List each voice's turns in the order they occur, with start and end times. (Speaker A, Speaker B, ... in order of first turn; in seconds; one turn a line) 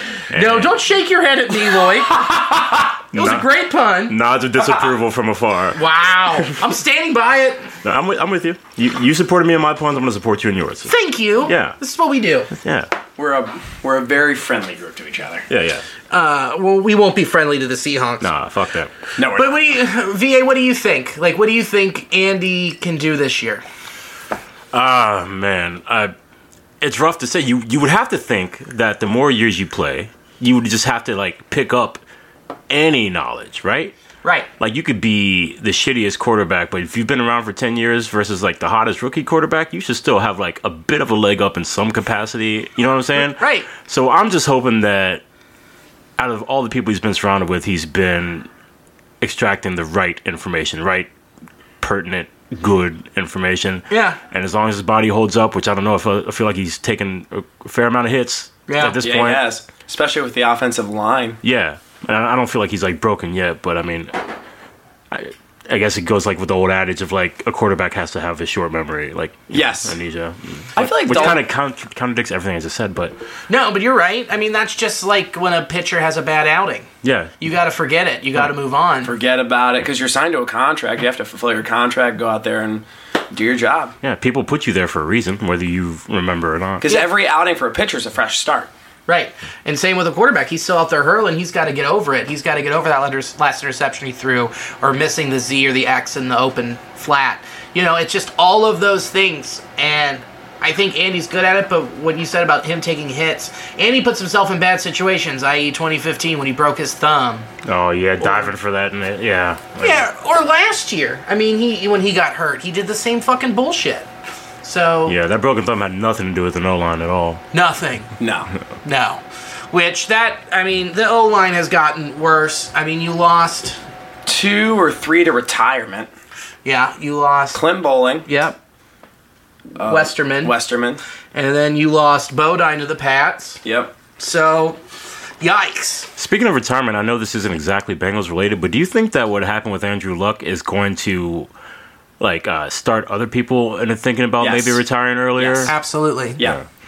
Speaker A: 0.3-0.8
Speaker B: 0.3-4.1
Speaker A: 3.1-3.5
Speaker A: 4.1-6.6
Speaker B: 5.7-7.7
Speaker A: 7.8-11.8
Speaker B: 10.9-12.5
Speaker A: 12.5-12.9
Speaker C: 13.2-15.4
Speaker A: 15.5-15.8
Speaker B: 16.1-18.3
Speaker A: 18.2-18.9
Speaker C: 19.2-19.6
Speaker B: 19.3-23.6
Speaker A: 24.7-26.1
Speaker A: 26.8-32.0
Speaker A: 32.7-33.9
Speaker A: 34.6-45.2
Speaker B: 43.2-43.7
Speaker A: 46.2-48.5
Speaker A: 49.2-51.1
Speaker A: 51.8-59.5
Speaker B: 53.9-54.2
Speaker B: 58.7-59.0
Speaker C: 59.0-61.4
Speaker A: 61.4-64.1
Speaker A: 65.1-73.2
Speaker C: 69.5-70.0
Speaker C: 70.8-71.4
Speaker B: 71.1-71.4
Speaker B: 73.5-76.9
Speaker A: 77.0-77.3
Speaker B: 77.4-79.1
Speaker C: 79.0-83.9
Speaker A: 84.0-86.8
Speaker C: 86.8-88.7
Speaker B: 89.1-107.5
Speaker A: 107.6-110.0
Speaker B: 108.2-108.5
Speaker B: 109.8-114.1
Speaker B: 114.6-115.2
Speaker A: 115.0-117.4
Speaker B: 117.5-118.1
Speaker C: 118.2-118.5
Speaker B: 118.8-123.8
Speaker C: 124.2-126.1
Speaker B: 126.6-127.6
Speaker C: 127.5-128.3
Speaker B: 128.2-128.6
Speaker C: 129.8-131.0
Speaker B: 129.8-130.5
Speaker B: 131.3-133.6
Speaker C: 133.6-133.9
Speaker B: 134.2-134.8
Speaker B: 135.4-136.1
Speaker A: 136.2-141.5
Speaker A: 142.2-145.7
Speaker C: 144.4-144.8
Speaker C: 145.3-145.7
Speaker B: 145.7-146.4
Speaker A: 146.4-146.6